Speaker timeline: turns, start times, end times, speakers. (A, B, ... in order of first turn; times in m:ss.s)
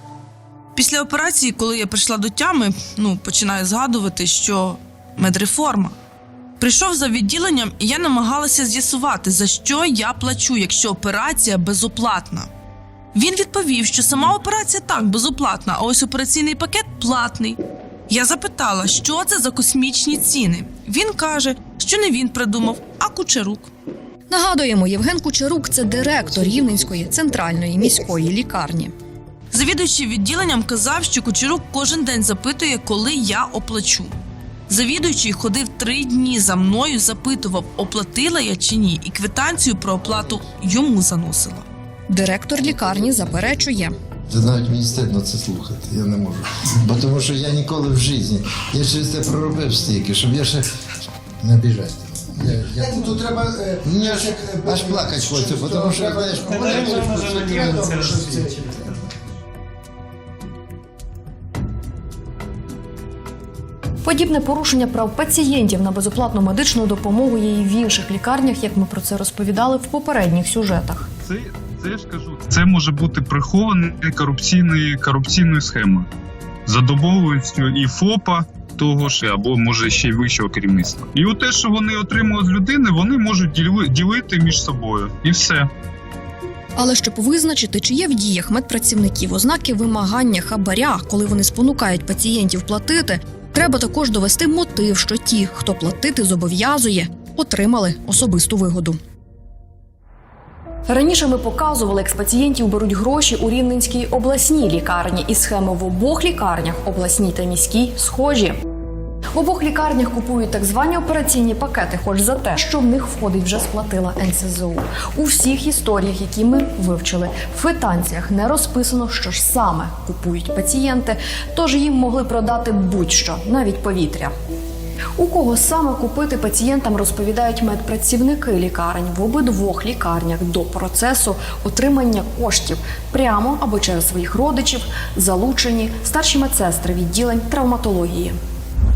0:00.8-0:06.0 A
0:06.6-0:12.5 A
0:13.1-0:23.7 A
0:24.3-0:28.9 B
0:29.5-0:34.1 A
0:34.7-0:41.6 A
0:42.1-0:44.0 B
0:44.3-0:50.6 C
0:51.4-0:53.3 C
0:52.8-0:58.8 D
0:53.8-0:58.1 C
1:04.0-1:11.1 B
1:11.3-1:16.1 E
1:16.7-1:25.7 E
1:26.8-1:39.0 B
1:40.9-1:48.6 B
1:49.3-2:04.3 B
2:05.2-2:18.4 B